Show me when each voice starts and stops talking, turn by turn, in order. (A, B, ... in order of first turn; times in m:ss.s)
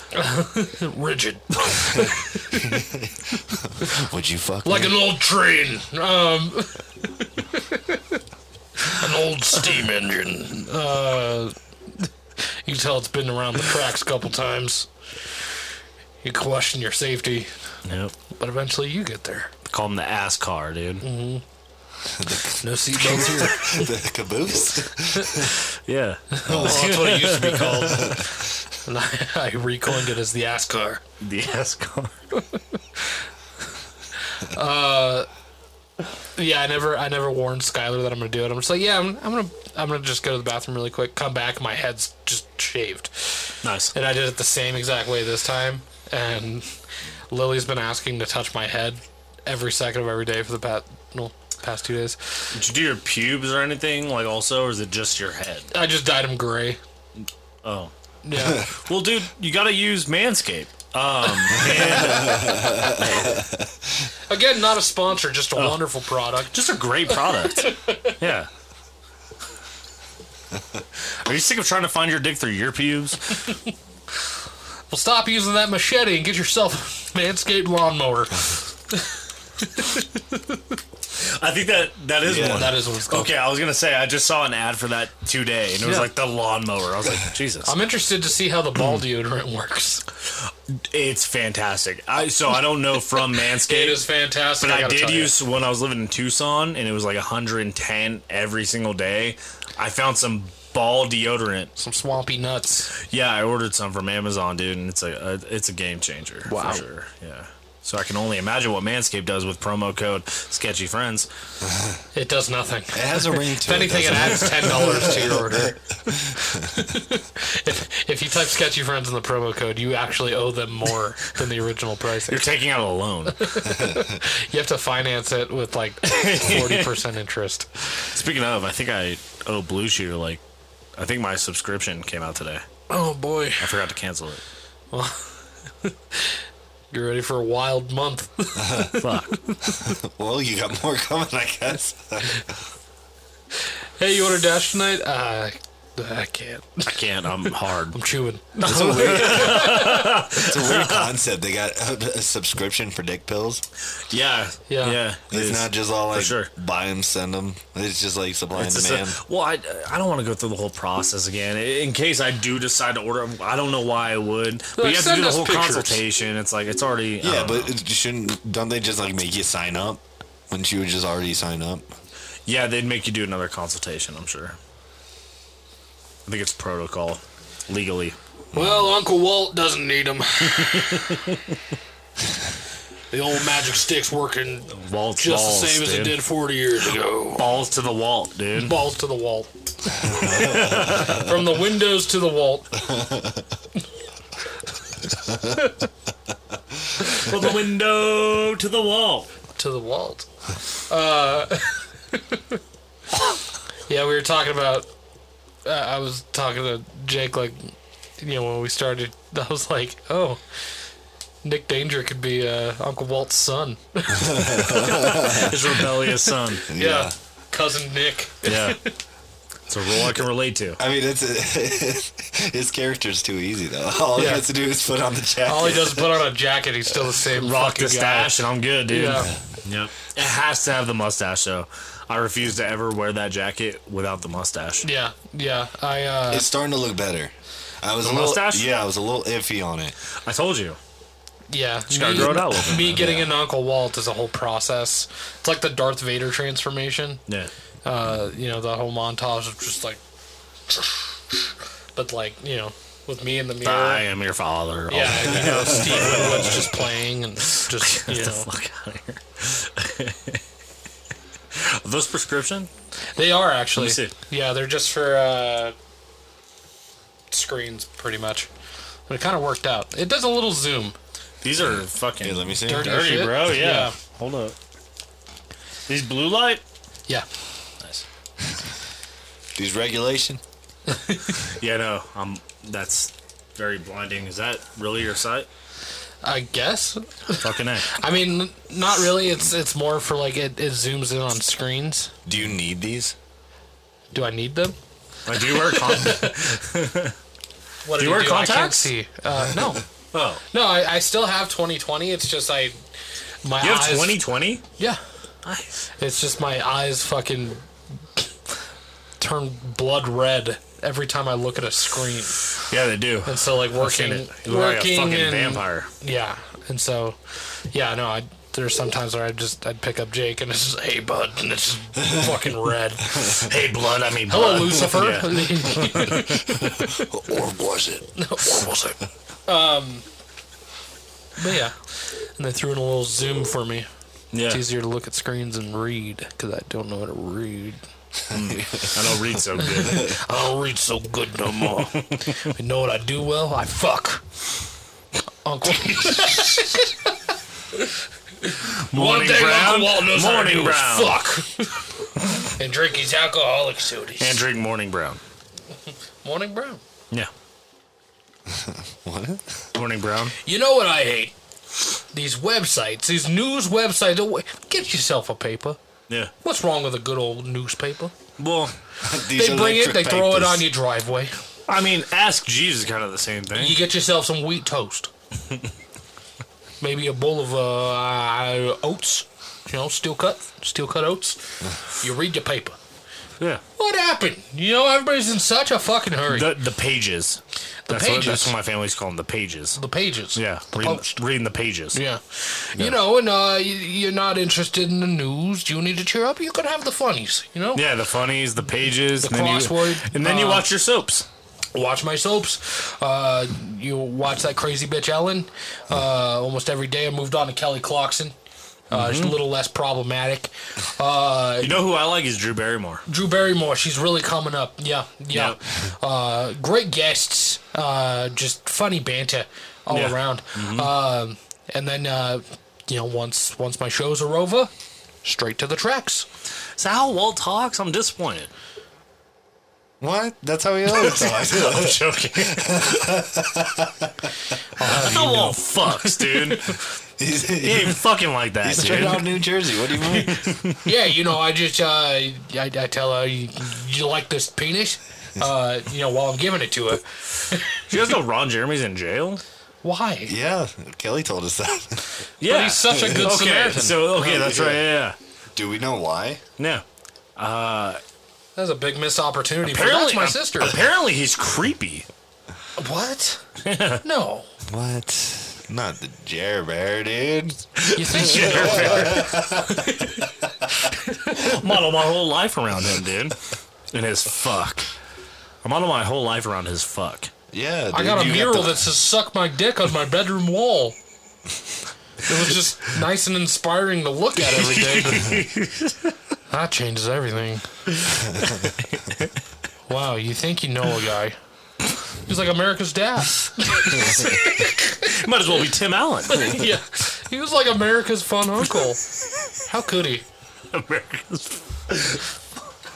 0:00.1-0:02.8 A
0:01.9-0:05.0 B
0:04.6-0:08.2 A
0:08.8-0:14.9 A
0:16.2-0:17.5 A
0:17.9-0:18.1 C
0:18.3-0:19.5 A
0:19.7-0:21.0 C
0:21.0-0:21.4 A
0:22.1-0:25.6 B
0:22.6-0:23.9 A
0:25.9-0:28.3 C
0:26.3-0:28.3 A
0:26.5-0:26.9 B
0:28.0-0:28.4 B
0:28.8-0:31.0 A
0:31.2-0:32.1 C
0:32.4-0:33.2 A
0:34.3-0:35.3 A
0:36.4-0:46.7 A
0:43.6-0:43.9 C
0:47.3-0:52.5 A
0:52.5-0:55.7 C
0:55.7-0:56.8 A
0:57.6-0:57.9 C
0:58.2-0:58.7 A
0:58.4-0:58.7 B
0:58.6-1:03.4 C
1:01.6-1:02.4 A
1:01.6-1:03.7 B
1:04.3-1:06.5 A
1:05.6-1:08.5 C
1:07.1-1:08.2 A
1:11.1-1:13.4 C
1:14.9-1:20.8 A
1:21.2-1:27.7 C
1:22.2-1:22.8 B
1:22.6-1:23.3 A
1:25.8-1:26.1 A
1:27.7-1:30.0 A
1:28.8-1:29.0 C
1:30.7-1:41.7 C
1:33.6-1:35.4 A
1:41.8-1:42.9 A
1:43.0-1:51.3 C
1:46.5-1:46.8 A
1:51.6-1:52.0 B
1:52.1-2:02.5 A
1:52.9-1:56.9 B
2:02.3-2:03.6 C
2:03.4-2:07.8 A
2:03.7-2:04.2 B
2:06.0-2:07.0 C
2:08.1-2:10.4 C
2:11.0-2:12.6 C
2:12.9-2:13.8 A
2:13.6-2:14.4 C
2:14.9-2:15.3 A
2:15.8-2:16.4 A
2:16.9-2:19.9 A
2:18.6-2:18.9 B
2:19.0-2:19.4 C
2:19.6-2:22.6 B
2:24.0-2:27.0 A
2:26.8-2:28.0 C
2:27.9-2:30.3 A
2:28.6-2:31.2 C
2:28.6-2:29.8 B
2:30.4-2:33.6 B
2:34.0-2:36.5 C
2:34.7-2:35.0 A
2:35.3-2:39.2 B
2:38.6-2:47.7 C
2:44.8-2:46.0 A
2:47.2-2:51.9 B
2:52.5-2:54.6 C
2:56.3-2:58.2 C
2:58.5-3:01.2 A
2:58.5-2:58.8 B
3:00.5-3:01.6 C
3:03.1-3:07.5 A
3:04.7-3:06.2 C
3:07.4-3:08.8 C
3:08.6-3:13.0 A
3:10.0-3:11.1 B
3:10.2-3:11.3 C
3:12.9-3:13.4 B
3:17.0-3:19.3 C
3:19.6-3:20.3 A
3:20.9-3:22.6 A
3:23.9-3:24.9 A
3:25.6-3:30.4 A
3:31.4-3:38.9 A
3:34.1-3:35.8 B
3:35.0-3:36.7 C
3:36.7-3:37.1 B
3:38.4-3:38.8 C
3:39.7-3:40.8 C
3:40.8-3:46.2 B
3:44.2-3:44.4 A
3:45.4-3:49.3 A
3:47.2-3:54.8 C
3:54.8-3:56.5 A
3:56.3-4:00.0 B
3:58.0-3:58.7 C
4:00.2-4:00.8 C
4:01.5-4:07.2 A
4:01.9-4:03.1 C
4:02.8-4:03.3 B
4:07.8-4:10.0 A
4:10.7-4:14.1 A
4:13.6-4:16.7 C
4:14.9-4:18.5 A
4:15.5-4:16.7 B
4:17.5-4:20.4 C
4:21.5-4:22.7 C
4:23.2-4:25.8 A
4:23.8-4:24.1 C
4:27.3-4:28.5 A
4:29.1-4:31.0 A
4:31.4-4:34.6 C
4:32.2-4:33.0 B
4:32.6-4:34.0 A
4:35.9-4:36.6 C
4:39.6-4:40.4 B
4:40.9-4:41.4 A
4:41.4-4:45.5 C
4:46.2-4:52.1 A
4:47.3-4:47.9 C
4:52.3-4:53.2 B
4:54.1-4:54.8 A
4:55.3-4:57.2 C
4:55.3-4:56.5 A
4:57.8-4:59.8 A
4:58.0-4:58.9 C
5:00.1-5:00.4 C
5:00.5-5:02.8 A
5:03.4-5:04.2 A
5:03.6-5:04.6 C
5:05.4-5:05.7 C
5:06.0-5:08.5 A
5:09.2-5:12.4 A
5:12.6-5:15.9 C
5:13.3-5:23.5 A
5:23.3-5:26.5 C
5:24.3-5:27.1 A
5:26.2-5:28.1 B
5:28.2-5:30.1 A
5:31.4-5:33.9 A
5:34.3-5:34.6 C
5:34.5-5:37.8 A
5:38.3-5:39.1 B
5:38.3-5:40.2 C
5:39.6-5:44.2 A
5:41.9-5:42.3 C
5:45.4-5:47.1 A
5:47.7-5:54.4 A
5:48.8-5:51.2 C
5:54.2-5:55.2 C
5:56.2-5:56.8 A
5:58.5-5:59.7 B
5:59.7-6:00.3 C
6:00.4-6:01.4 A
6:02.1-6:05.8 A
6:06.4-6:08.1 A
6:08.4-6:08.7 C
6:09.0-6:10.7 B
6:09.2-6:11.3 A
6:11.7-6:13.8 C
6:13.6-6:15.1 A
6:16.8-6:22.8 A
6:23.8-6:26.5 A
6:26.3-6:29.8 C
6:27.9-6:28.5 A
6:29.8-6:31.1 A
6:30.3-6:32.0 C
6:31.9-6:37.8 A
6:37.8-6:41.3 C
6:39.2-6:40.7 A
6:41.7-6:48.4 A
6:48.9-6:49.4 C
6:48.9-6:51.8 A
6:51.6-6:53.0 C
6:53.1-7:04.7 A
6:55.3-6:55.6 C
6:59.9-7:00.9 C
7:05.2-7:06.3 A
7:06.8-7:08.5 C
7:10.0-7:14.3 B
7:10.9-7:13.1 C
7:14.8-7:16.8 A
7:14.8-7:16.7 C
7:17.2-7:18.0 B
7:17.6-7:20.9 C
7:18.6-7:20.5 B
7:20.8-7:27.8 A
7:27.9-7:29.4 C
7:29.8-7:30.3 A
7:30.3-7:32.2 B
7:32.4-7:35.2 C
7:32.4-7:34.3 A
7:32.9-7:33.3 B
7:34.1-7:34.8 B
7:35.6-7:36.4 B
7:36.6-7:36.8 C
7:37.4-7:38.0 C
7:38.6-7:40.8 A
7:39.6-7:42.1 C
7:42.8-7:43.4 A
7:43.6-7:44.0 C
7:44.0-7:44.5 A
7:44.7-7:50.0 B
7:47.8-7:49.5 C
7:47.9-7:50.2 A
7:50.8-7:51.6 A
7:51.3-7:53.4 C
7:53.9-7:54.9 C
7:55.6-7:57.3 C
7:57.5-7:58.8 B
7:57.9-8:01.0 A
8:02.2-8:05.4 A
8:04.5-8:06.1 C
8:06.5-8:07.8 A
8:08.1-8:09.3 C
8:09.9-8:11.4 A
8:12.3-8:15.1 A
8:13.9-8:16.7 C
8:16.3-8:19.0 A
8:19.6-8:20.2 A
8:20.7-8:22.2 C